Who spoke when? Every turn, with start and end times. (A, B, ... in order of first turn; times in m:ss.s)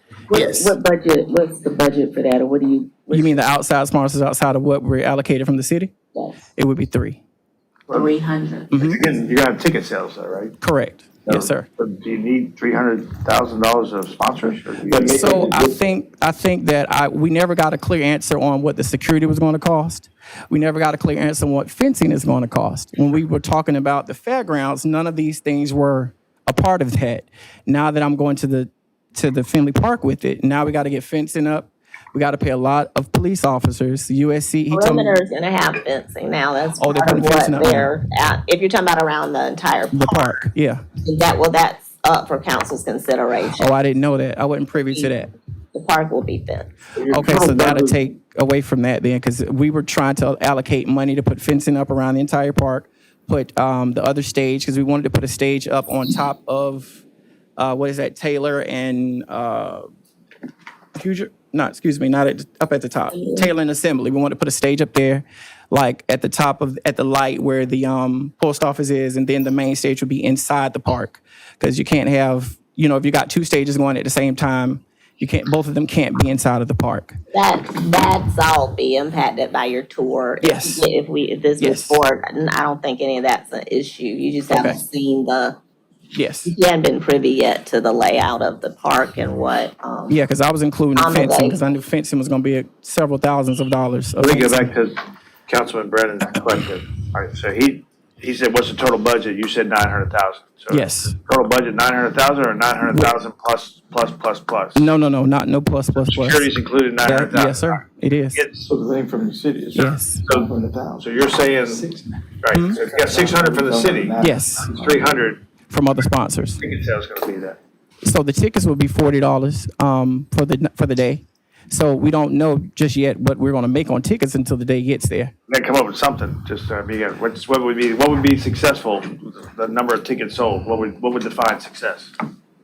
0:00.3-0:03.4 A
0:00.3-0:00.7 B
0:03.1-0:05.9 B
0:06.1-0:06.4 A
0:06.6-0:07.2 B
0:07.9-0:09.0 A
0:08.7-0:09.0 B
0:08.8-0:10.5 C
0:10.6-0:11.7 B
0:11.3-0:15.3 C
0:15.0-0:35.2 B
0:34.7-0:43.7 D
0:36.8-0:37.9 B
0:39.9-0:40.8 B
0:43.5-0:45.3 B
0:44.8-0:45.2 D
0:45.7-0:46.7 D
0:47.1-0:57.0 B
0:57.6-0:59.9 B
1:01.0-1:17.2 B
1:03.1-1:03.5 A
1:17.3-1:25.6 D
1:20.4-1:20.9 B
1:21.6-1:22.0 B
1:26.1-1:26.5 B
1:26.4-1:30.2 D
1:30.1-1:34.7 B
1:30.9-1:31.6 D
1:34.2-1:44.8 C
1:40.7-1:41.2 B
1:44.8-1:48.4 B
1:46.0-1:47.8 C
1:48.3-1:48.7 C
1:48.6-1:51.0 E
1:49.7-1:50.2 B
1:51.0-1:51.8 C
1:52.4-1:54.2 C
1:52.5-1:52.8 B
1:52.6-1:55.1 E
1:54.2-1:54.7 B
1:54.7-1:55.4 C
1:55.7-1:56.6 B
1:56.6-1:57.6 C
1:58.0-2:05.3 B
2:05.5-2:12.1 C